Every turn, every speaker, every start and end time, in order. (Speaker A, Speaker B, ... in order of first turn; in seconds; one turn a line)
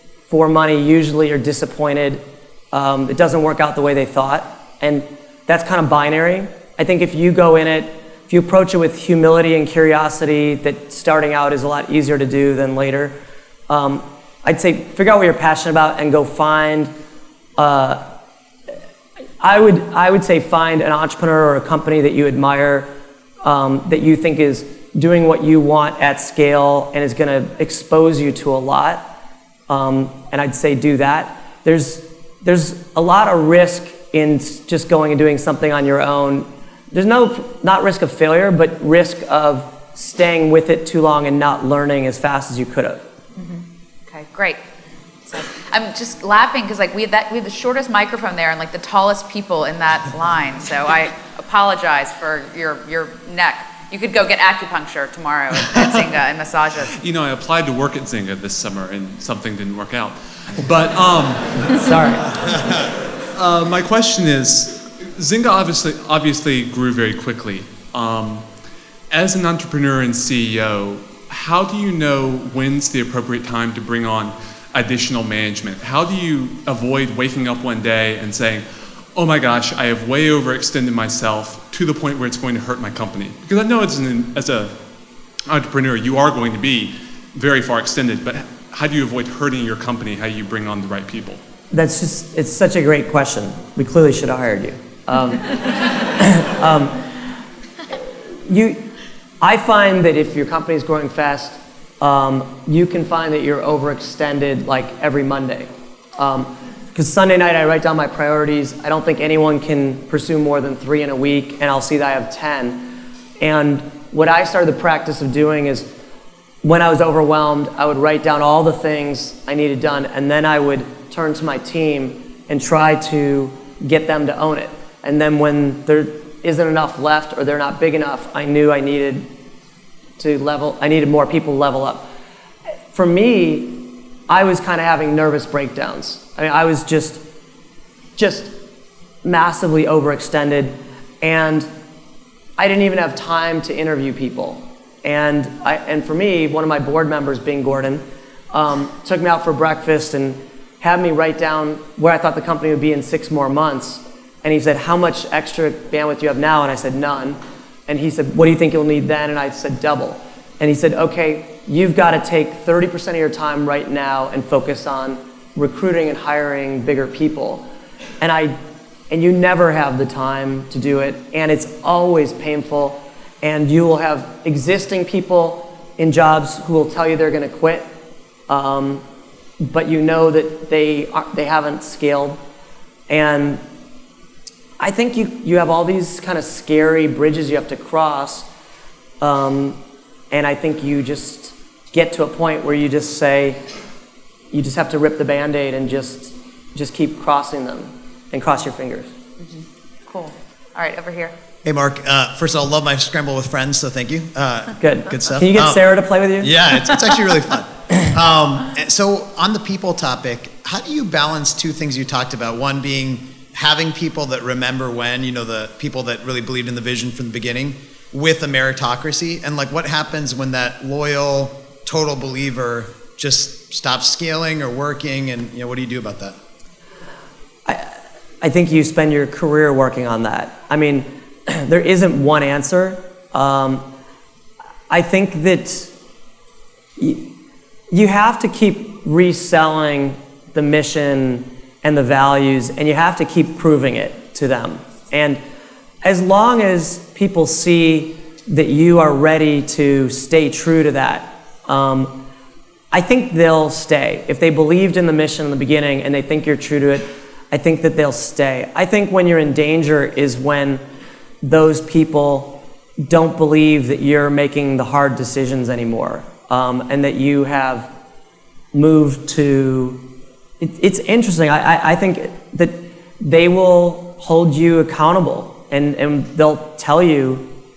Speaker A: 0.3-13.2
Speaker A: 13.7-16.9
Speaker A: 17.6-18.1
Speaker A: 19.4-22.9
Speaker A: 23.4-29.1
Speaker A: 29.7-43.0
Speaker B: 43.4-44.6
Speaker B: 45.3-57.0
Speaker C: 57.0-62.2
Speaker A: 61.8-62.2
Speaker C: 63.4-68.5
Speaker C: 69.1-84.8
Speaker C: 85.5-91.4
Speaker A: 91.7-97.0
Speaker A: 98.5-98.8
Speaker A: 99.4-115.9
Speaker A: 116.6-129.3
Speaker A: 130.2-132.1
Speaker A: 132.9-137.2
Speaker A: 138.2-138.5
Speaker A: 139.2-141.7
Speaker A: 142.6-167.7
Speaker A: 168.2-168.6
Speaker A: 169.1-177.9
Speaker A: 178.5-179.0
Speaker A: 179.6-182.4
Speaker A: 183.1-183.6
Speaker A: 184.8-188.5
Speaker A: 189.2-189.8
Speaker A: 190.3-193.6
Speaker A: 194.5-199.1
Speaker B: 199.4-201.3
Speaker D: 201.6-205.9
Speaker A: 204.8-206.6
Speaker D: 206.4-226.4
Speaker A: 227.7-233.8
Speaker A: 234.9-235.9
Speaker A: 237.0-237.3
Speaker A: 237.9-245.4
Speaker A: 246.0-252.2
Speaker A: 252.9-260.8
Speaker A: 261.4-267.9
Speaker A: 268.7-270.0
Speaker A: 270.6-277.5